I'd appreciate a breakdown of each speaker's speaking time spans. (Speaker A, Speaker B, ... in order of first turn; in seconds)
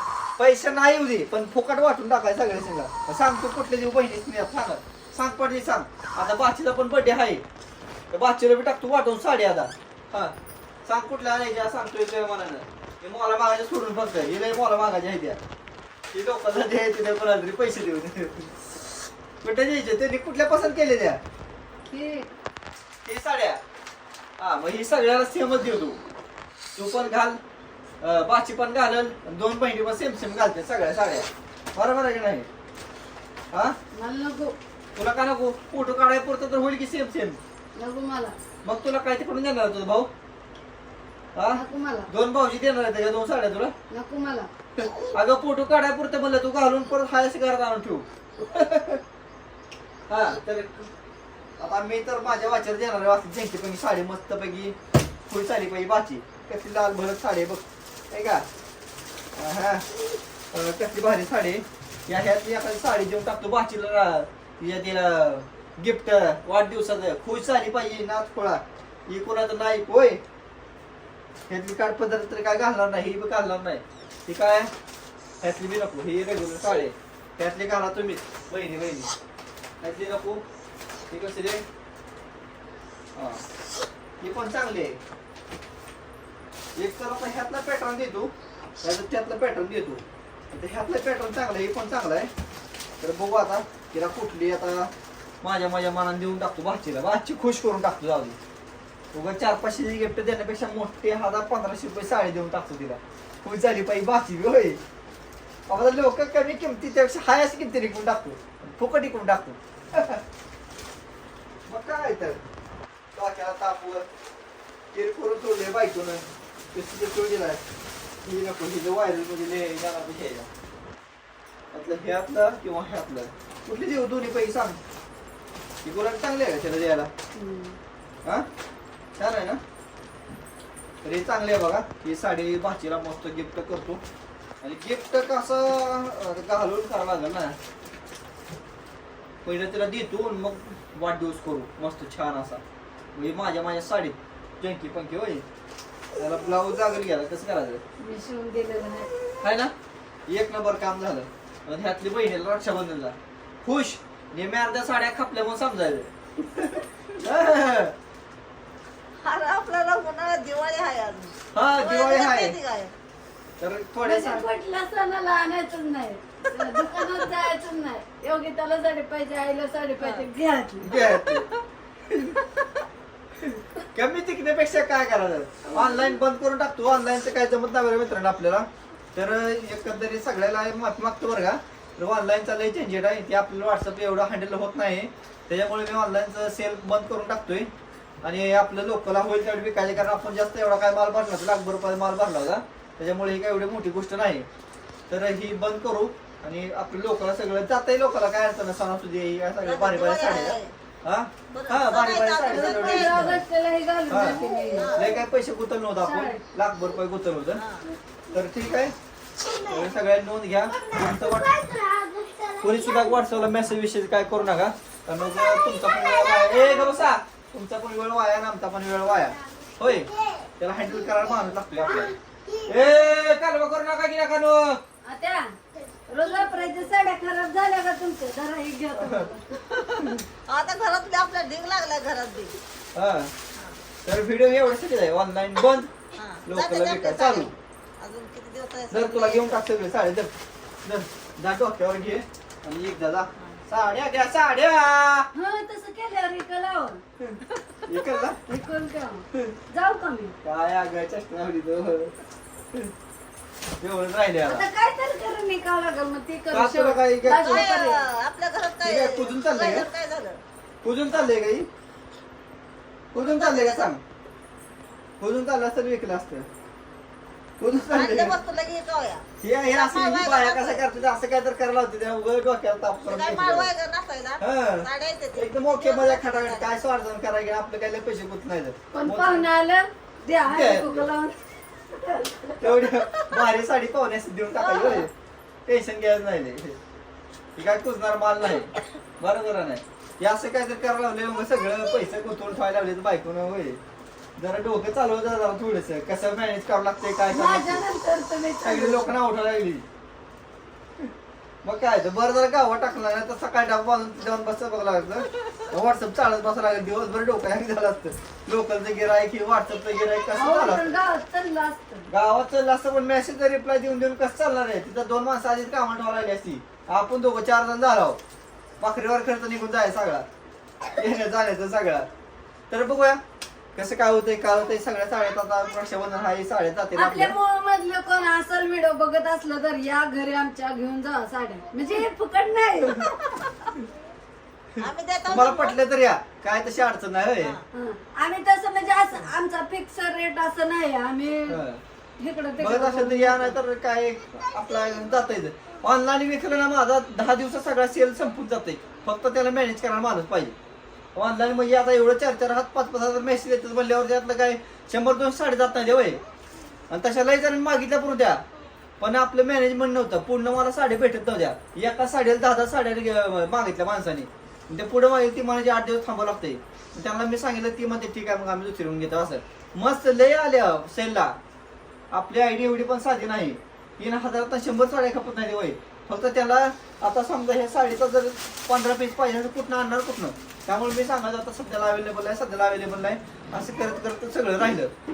Speaker A: 0.4-7.4, 8.1-10.3, 10.9-15.4, 16.1-18.6, 19.4-21.2, 23.1-23.6, 24.4-26.0, 26.8-27.4, 28.0-32.5, 33.5-33.8, 34.9-37.4, 38.6-40.1, 41.4-43.7, 44.8-49.0, 50.1-50.9, 51.6-54.8, 55.3-58.5, 59.4-59.9, 60.5-70.2, 71.5-74.7, 75.4-79.1, 79.8-80.4, 81.1-81.6, 83.1-83.4, 84.2-85.0, 86.8-92.3, 93.0-94.9, 95.4-98.4, 99.1-104.8, 105.7-110.2, 111.7-112.4, 113.1-114.1, 114.9-117.6, 118.2-120.5, 121.7-124.8, 125.8-127.1, 129.2-129.6, 131.0-134.0, 134.6-137.6, 139.4-142.6, 143.1-145.4, 146.2-147.8, 149.4-149.7, 150.3-157.9, 161.5-162.6, 163.6-164.4, 170.8-171.5, 172.1-172.4, 173.4-187.7, 188.2-194.5, 195.1-203.4, 204.1-207.6, 208.3-208.9, 209.6-211.6, 212.6-224.8, 229.0-229.3, 232.9-233.3, 234.1-235.9, 236.4-237.5, 238.9-240.3, 240.8-245.3, 247.2-248.4, 250.4-252.2, 253.8-254.7, 256.5-257.7, 258.8-259.9, 260.8-261.7, 263.1-264.0, 265.2-266.5, 267.6-268.4, 269.4-273.7, 274.4-279.5, 280.4-281.1, 282.6-285.1, 285.7-286.8, 287.6-293.8, 294.4-297.8, 298.6-299.8, 301.6-310.9, 312.1-318.2, 318.8-320.3, 320.9-322.1, 322.7-323.2, 323.8-327.3, 334.8-337.6, 341.5-341.8, 342.6-350.6, 351.1-356.2, 356.9-358.4, 359.0-371.4, 372.1-384.9
Speaker B: 21.9-22.3, 33.9-34.6, 37.8-38.4, 41.5-42.1, 43.9-44.5, 127.3-127.8, 148.0-149.1, 164.0-170.9, 175.7-176.2, 202.5-205.2, 206.0-206.4, 225.0-225.6, 226.1-230.1, 245.3-247.0, 248.3-250.3, 254.4-258.1, 278.9-282.9, 284.7-285.0, 297.3-299.1, 310.3-312.1, 326.9-333.3, 337.7-341.6, 342.2-343.6
Speaker C: 159.2-162.9, 166.6-167.2, 170.0-170.3, 170.9-171.4, 199.6-200.7, 201.5-203.1, 204.8-205.1, 207.6-207.9, 215.6-216.9, 229.7-232.6, 233.5-233.8, 236.2-239.6, 257.5-260.4, 263.1-263.9, 267.9-270.9, 273.0-276.7, 283.1-283.3, 334.8-335.8